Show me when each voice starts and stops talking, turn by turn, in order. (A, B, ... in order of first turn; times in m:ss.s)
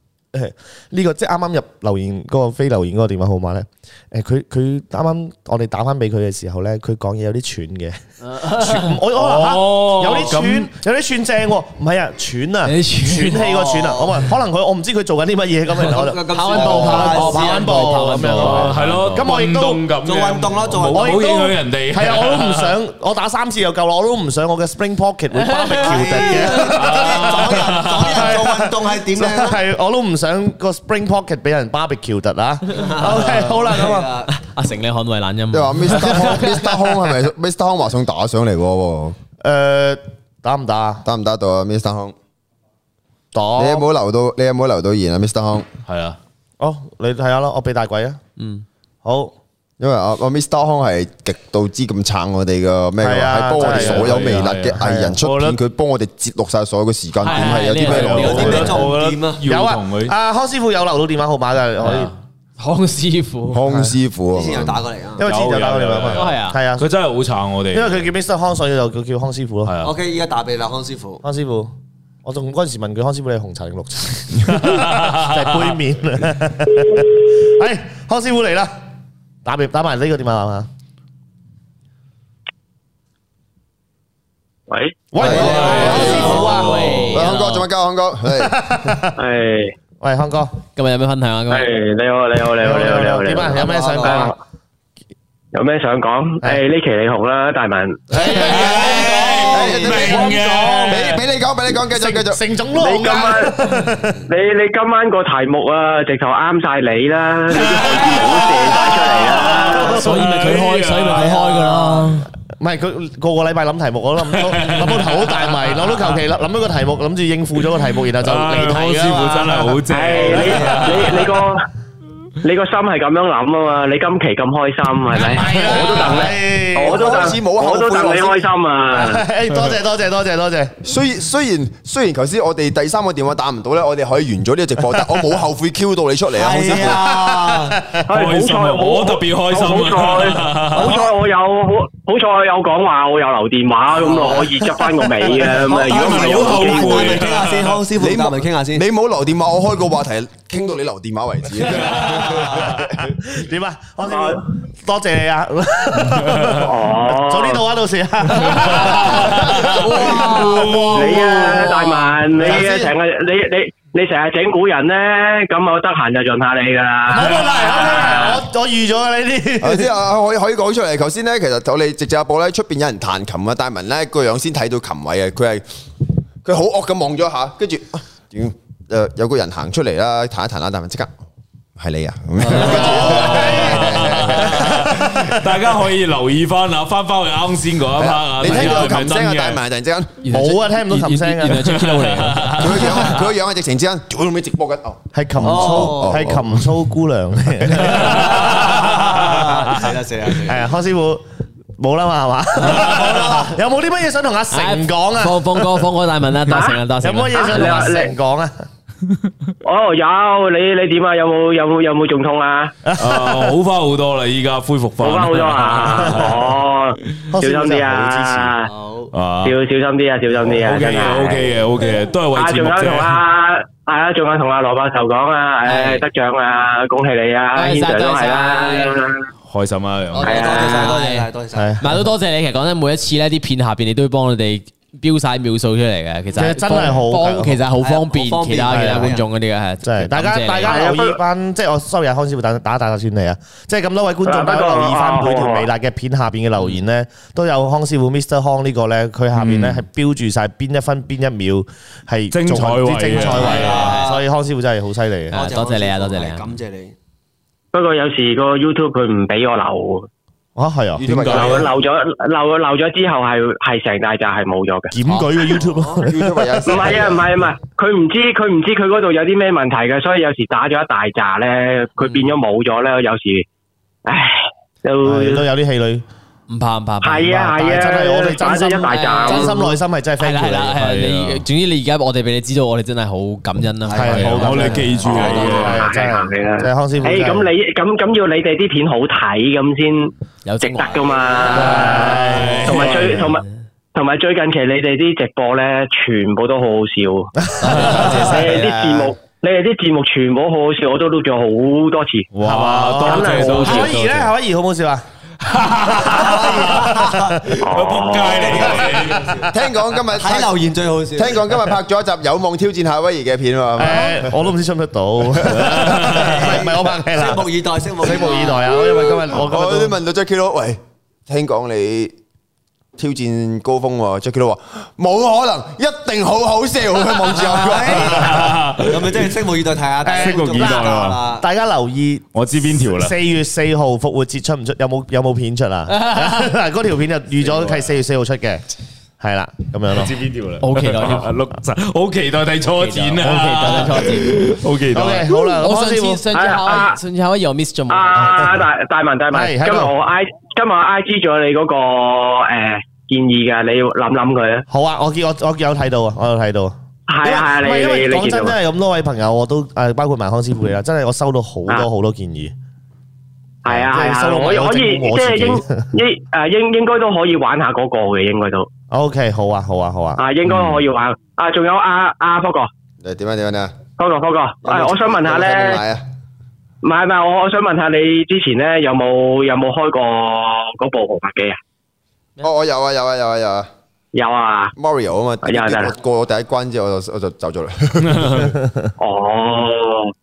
0:00.3-0:19.8 A
0:08.2-0:09.0 B
0:09.2-0:10.7 C
0:12.6-0:13.5 B
0:13.4-0:14.0 D
0:15.8-0:18.6 D
0:16.3-0:19.2 B
0:18.4-0:22.7 C
0:20.0-0:21.3 D
0:20.9-0:34.1 A
0:25.4-0:26.7 B
0:25.7-0:29.6 D
0:26.7-0:28.3 C
0:32.7-0:34.4 D
0:34.3-0:36.6 B
0:35.5-0:39.2 E
0:39.4-0:41.0 A
0:41.0-0:42.2 E
0:43.3-0:43.9 A
0:43.6-0:45.7 E
0:45.9-0:46.2 C
0:46.6-0:48.2 A
0:48.4-0:48.6 B
0:49.0-0:49.3 A
0:49.8-0:58.6 E
0:53.0-0:54.2 A
0:53.6-0:55.6 C
0:54.8-0:55.1 A
0:57.2-0:58.9 B
0:57.3-1:00.1 C
0:58.1-0:59.4 D
0:58.2-0:58.7 A
0:59.5-1:02.1 A
1:01.8-1:03.6 B
1:03.5-1:04.8 E
1:04.3-1:05.2 D
1:05.2-1:06.9 A
1:05.2-1:08.1 C
1:06.1-1:06.6 B
1:07.7-1:09.7 A
1:09.7-1:10.0 C
1:09.8-1:11.2 D
1:11.2-1:11.7 A
1:12.2-1:18.7 A
1:14.5-1:15.7 C
1:19.4-1:20.7 A
1:25.1-1:27.1 A
1:25.2-1:27.0 D
1:25.2-1:26.5 E
1:25.3-1:26.5 C
1:25.7-1:27.7 B
1:27.0-1:28.8 E
1:28.4-1:29.1 A
1:29.2-1:29.7 F
1:30.0-1:30.6 A
1:30.8-1:31.7 B
1:31.5-1:34.3 F
1:32.6-1:34.4 A
1:33.5-1:34.3 D
1:35.5-1:38.1 F
1:38.1-1:41.0 A
1:38.2-1:41.2 C
1:38.8-1:39.0 D
1:39.5-1:42.4 E
1:41.9-1:44.2 A
1:42.8-1:43.6 F
1:44.3-1:49.9 F
1:47.5-1:51.8 C
1:49.4-1:50.2 A
1:49.7-1:52.3 B
1:51.2-1:51.4 D
1:52.6-1:59.8 A
1:54.3-1:56.1 C
1:58.2-2:01.4 C
1:59.9-2:01.6 F
2:00.2-2:01.0 D
2:02.4-2:09.2 F
2:05.2-2:07.2 A
2:05.2-2:06.3 C
2:06.8-2:08.5 E
2:08.9-2:10.8 A
2:10.8-2:17.0 E
2:16.3-2:17.8 D
2:17.1-2:18.0 A
2:18.1-2:27.2 F
2:18.1-2:21.0 C
2:24.0-2:24.6 D
2:25.3-2:28.8 D
2:25.8-2:27.8 C
2:28.0-2:32.9 E
2:32.4-2:40.7 A
2:34.0-2:34.4 F
2:36.1-2:36.6 C
2:36.6-2:37.6 F
2:38.4-2:41.9 C
2:39.7-2:42.1 B
2:40.9-2:48.4 F
2:42.4-2:42.9 E
2:47.1-2:49.9 A
2:49.6-2:55.6 E
2:56.4-3:01.1 E
3:01.8-3:05.0 E
3:02.6-3:04.9 A
3:03.0-3:09.6 C
3:08.0-3:10.2 E
3:10.2-3:12.7 B
3:10.3-3:11.7 A
3:11.5-3:13.0 C
3:12.6-3:16.6 E
3:15.1-3:18.8 A
3:15.4-3:16.4 D
3:17.8-3:20.7 D
3:18.0-3:19.6 C
3:20.5-3:21.2 A
3:21.8-3:25.7 A
3:22.6-3:23.6 D
3:24.5-3:28.1 B
3:26.5-3:26.8 F
3:27.0-3:28.6 A
3:27.3-3:28.1 F
3:29.6-3:32.8 F
3:32.9-3:33.4 A
3:33.0-3:36.6 C
3:35.0-3:38.7 F
3:37.3-3:38.5 A
3:38.7-3:39.1 D
3:39.1-3:39.6 C
3:39.4-3:41.5 F
3:40.4-3:43.2 C
3:42.3-3:49.3 F
3:45.6-3:46.0 B
3:47.6-3:49.0 B
3:49.5-3:50.5 C
3:50.2-3:51.8 D
3:50.2-3:50.9 F
3:50.3-3:51.3 B
3:51.6-3:51.8 A
3:51.8-4:01.0 B
3:56.3-3:57.6 A
3:57.8-3:59.3 D
3:58.7-3:59.1 A
3:59.8-4:15.4 A
4:00.6-4:01.2 F
4:04.3-4:05.7 F
4:09.4-4:09.8 C
4:12.3-4:14.0 C
4:13.2-4:14.2 D
4:13.6-4:14.1 B
4:15.3-4:16.5 B
4:15.3-4:16.9 D
4:17.7-4:20.1 F
4:20.6-4:21.0 A
4:21.0-4:21.7 E
4:21.0-4:21.7 C
4:21.3-4:24.9 F
4:24.9-4:27.0 A
4:25.5-4:26.0 D
4:26.0-4:27.3 E
4:26.7-4:33.4 F
4:32.0-4:32.3 B
4:34.1-4:35.5 F
4:35.0-4:36.0 A
4:36.5-4:37.6 B
4:37.0-4:39.6 F
4:37.3-4:40.8 A
4:38.6-4:45.0 B
4:40.8-4:41.4 C
4:43.9-4:45.9 D
4:43.9-4:47.5 A
4:44.1-4:45.9 C
4:45.2-4:57.3 F
4:50.4-4:51.8 B
4:50.8-4:51.9 D
4:51.5-4:53.1 C
4:51.5-4:53.0 A
4:53.2-4:53.4 B
4:57.5-4:58.1 A
4:57.6-4:58.2 B
4:57.8-4:58.1 C
4:57.9-4:58.9 D
4:58.1-5:02.3 F
5:02.3-5:04.3 C
5:02.4-5:05.0 A
5:03.0-5:03.9 F
5:05.4-5:06.9 C
5:05.9-5:07.2 A
5:06.0-5:07.7 D
5:07.7-5:08.8 F
5:07.7-5:09.4 C
5:08.2-5:09.4 D
5:09.5-5:10.6 E
5:10.1-5:11.6 D
5:11.1-5:14.4 E
5:13.8-5:17.5 A
5:15.5-5:16.5 C
5:15.9-5:19.3 D
5:18.0-5:20.0 A
5:19.3-5:22.1 E
5:23.0-5:28.5 E
5:27.3-5:31.4 D
5:27.9-5:29.3 C
5:30.0-5:30.9 A
5:30.1-5:31.2 C
5:31.4-5:38.6 A
5:32.3-5:33.1 C
5:35.9-5:36.5 B
5:37.4-5:37.9 C
5:39.2-5:40.1 A
5:39.9-5:45.3 C
5:40.6-5:41.4 B
5:42.8-5:44.6 B
5:44.9-5:46.2 A
5:45.5-5:48.6 B
5:46.3-5:47.0 F
5:47.9-5:54.6 F
5:48.2-5:48.6 A
5:49.3-5:49.9 A
5:54.7-6:02.5 A
5:57.1-5:58.6 F
6:03.6-6:08.7 F
6:03.7-6:05.9 A
6:08.9-6:10.2 A
6:10.2-6:12.7 F
6:10.5-6:10.8 C
6:13.0-6:13.7 E
6:14.0-6:15.8 F
6:14.6-6:16.0 E
6:16.8-6:21.6 F
6:22.4-6:23.7 E
6:24.1-6:24.7 F
6:24.8-6:28.6 E
6:25.4-6:26.0 F
6:28.1-6:28.5 C
6:29.0-6:30.1 F